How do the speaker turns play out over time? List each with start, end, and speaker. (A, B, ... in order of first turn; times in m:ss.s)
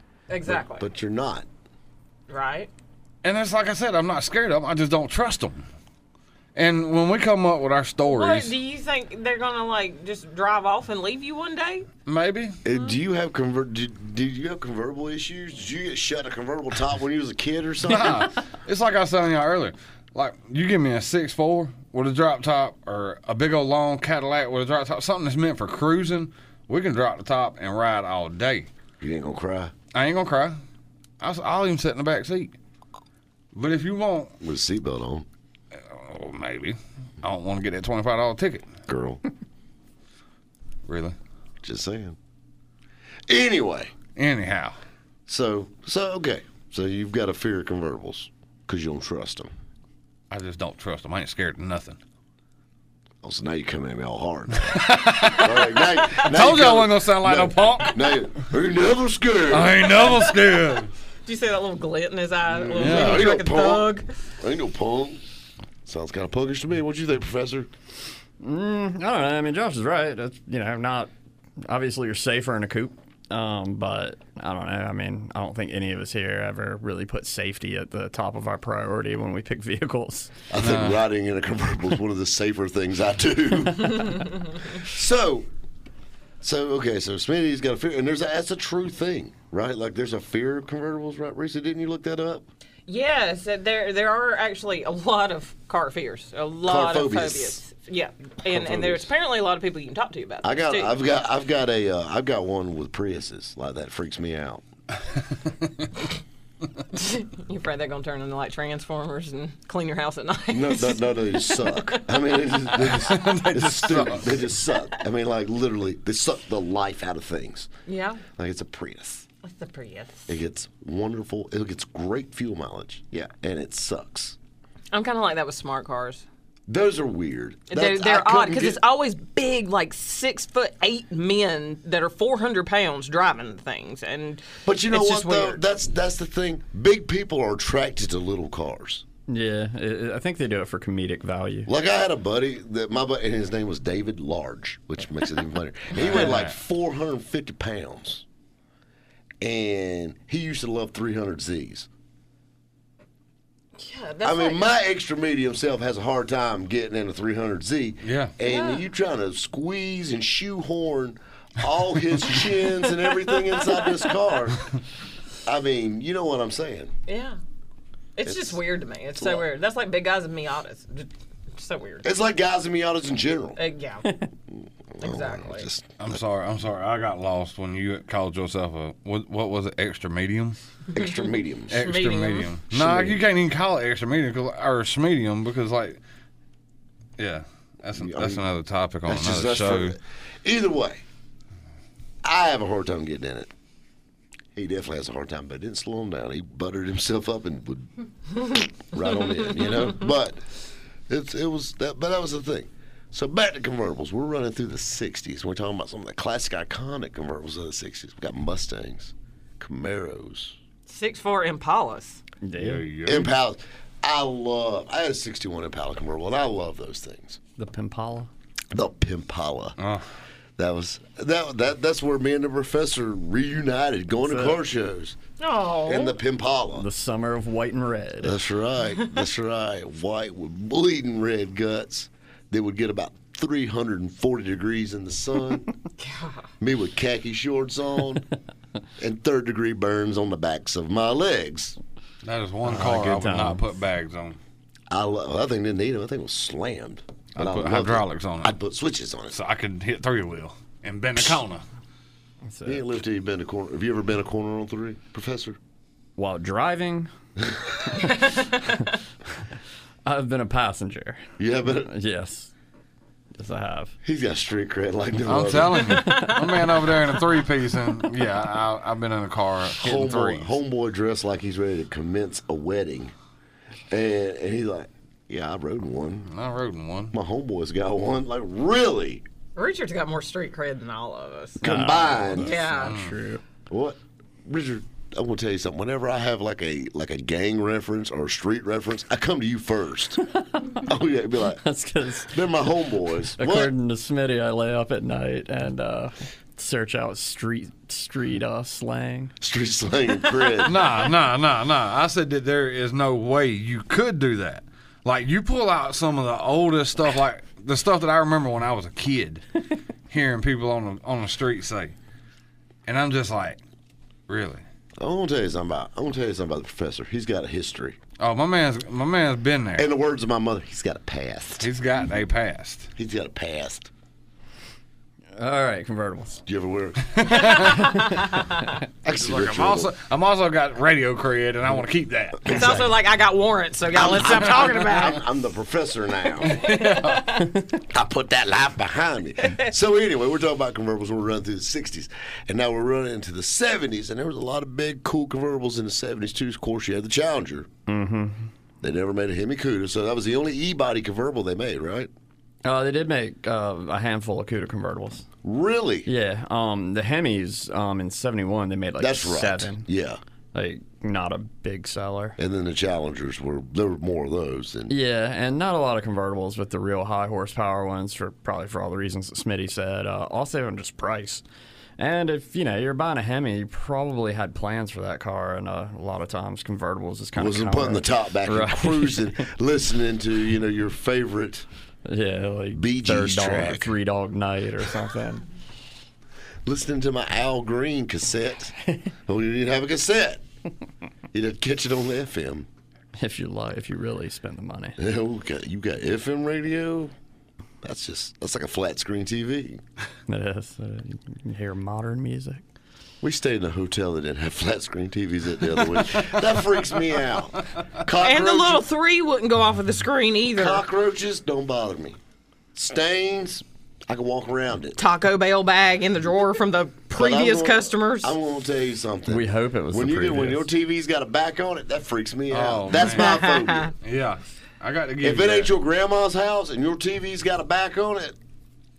0:00.3-0:00.9 A
0:00.5-0:01.4 B
0:02.3-0:02.7 A
0:03.2-0:05.6 C
0:06.5-0:08.5 C
0:08.0-0:11.9 A
0:12.0-0:12.6 C
0:12.6-0:18.3 B
0:17.8-0:28.7 C
0:29.0-0:29.7 B
0:29.9-0:30.6 C
0:31.2-0:32.5 C
0:33.5-0:34.3 C
0:34.4-0:35.2 B
0:35.8-0:38.7 C
0:38.9-0:39.2 B
0:40.9-0:41.2 C
0:41.6-0:42.2 B
0:43.3-0:43.9 B
0:44.2-0:44.8 C
0:45.3-0:49.5 B
0:50.3-0:52.0 C
0:53.2-1:00.1 B
0:54.7-0:58.1 C
0:59.5-1:00.9 C
1:00.0-1:04.1 A
1:02.5-1:05.2 B
1:02.7-1:03.4 C
1:05.8-1:07.7 B
1:08.4-1:11.1 D
1:11.6-1:20.3 D
1:20.5-1:25.5 B
1:20.6-1:21.0 C
1:26.4-1:32.5 B
1:32.9-1:41.0 A
1:36.6-1:37.6 B
1:38.4-1:39.1 B
1:40.4-1:44.6 B
1:46.9-1:52.6 A
1:50.5-1:57.7 B
1:52.8-1:54.5 C
1:57.9-1:58.2 A
1:58.3-1:59.2 B
1:59.4-2:00.3 A
2:00.3-2:04.4 B
2:04.9-2:06.2 A
2:06.7-2:08.8 B
2:07.7-2:15.6 A
2:14.6-2:19.0 B
2:19.3-2:21.7 D
2:21.7-2:28.2 B
2:25.9-2:26.5 C
2:29.4-2:31.9 B
2:33.8-2:34.7 A
2:34.2-2:44.6 B
2:38.0-2:38.3 C
2:38.4-2:38.8 A
2:45.4-2:46.9 B
2:47.1-2:47.4 A
2:48.2-2:52.1 A
2:48.2-2:48.6 B
2:49.2-2:49.4 B
2:52.0-2:53.6 B
2:53.6-2:54.2 A
2:54.9-2:56.2 B
2:55.0-2:55.7 A
2:56.0-3:00.6 C
3:00.9-3:01.8 B
3:01.7-3:06.0 C
3:01.7-3:02.6 A
3:02.7-3:03.2 B
3:07.2-3:10.0 C
3:07.9-3:08.5 B
3:09.0-3:11.0 B
3:12.2-3:13.5 B
3:14.5-3:20.4 B
3:21.1-3:30.6 B
3:30.9-3:32.2 A
3:32.4-3:32.9 D
3:32.6-3:33.3 C
3:33.0-3:37.4 B
3:37.6-3:38.3 D
3:38.7-3:39.8 B
3:40.6-3:45.2 B
3:44.2-3:44.6 D
3:45.4-3:46.2 A
3:45.8-3:46.8 B
3:46.8-3:48.4 D
3:48.2-3:55.7 B
3:56.0-3:56.4 A
3:56.6-3:58.3 B
3:59.0-4:01.8 B
4:02.2-4:04.4 C
4:02.6-4:03.6 D
4:04.9-4:09.4 B
4:07.4-4:08.6 C
4:09.3-4:11.6 C
4:12.5-4:13.0 D
4:12.6-4:15.6 B
4:16.2-4:17.1 D
4:17.4-4:17.9 B
4:18.0-4:18.9 D
4:20.0-4:21.3 D
4:21.4-4:21.9 B
4:21.8-4:22.5 D
4:23.3-4:23.9 D
4:24.0-4:26.2 B
4:25.3-4:30.6 C
4:25.9-4:26.5 D
4:29.8-4:33.1 B
4:33.9-4:36.3 B
4:36.3-4:37.1 C
4:37.1-4:39.2 B
4:39.6-4:41.6 A
4:41.6-4:42.6 B
4:41.6-4:43.4 D
4:42.4-4:43.0 A
4:42.8-4:43.1 C
4:43.7-4:51.6 B
4:51.6-4:52.6 D
4:52.3-4:53.7 B
4:53.4-4:59.3 D
4:59.4-5:00.8 B
5:00.6-5:11.9 C
5:12.9-5:13.6 C
5:14.3-5:14.6 C
5:15.0-5:18.0 B
5:18.2-5:19.9 C
5:19.8-5:21.7 B
5:21.6-5:22.9 C
5:23.0-5:23.9 B
5:25.4-5:26.4 D
5:26.4-5:27.4 B
5:27.1-5:28.0 C
5:29.0-5:29.9 B
5:29.1-5:32.6 C
5:32.4-5:32.9 B
5:32.4-5:35.2 A
5:33.9-5:36.6 B
5:36.4-5:37.4 C
5:36.6-5:37.5 A
5:37.8-5:47.7 B
5:47.9-5:48.5 D
5:48.8-5:52.1 B
5:52.6-5:55.2 D
5:55.4-5:56.1 B
5:56.0-5:59.9 D
5:59.0-6:00.2 B
6:00.5-6:02.4 D
6:02.4-6:05.0 B
6:04.9-6:11.4 D
6:12.0-6:19.5 D
6:17.4-6:21.6 B
6:22.0-6:25.4 D
6:22.7-6:23.9 B
6:26.6-6:28.7 B
6:29.2-6:30.4 B
6:31.3-6:32.7 B
6:33.2-6:35.0 D
6:35.0-6:37.1 B
6:37.8-6:39.8 B
6:40.3-6:42.6 D
6:43.2-6:48.9 B
6:48.2-6:50.8 A
6:50.5-6:52.2 B
6:52.7-6:55.0 B
6:55.0-6:58.3 A
6:57.1-7:03.9 B
6:59.3-7:00.7 D
7:02.5-7:03.4 C
7:03.0-7:03.9 A
7:04.0-7:05.7 C
7:05.2-7:08.4 B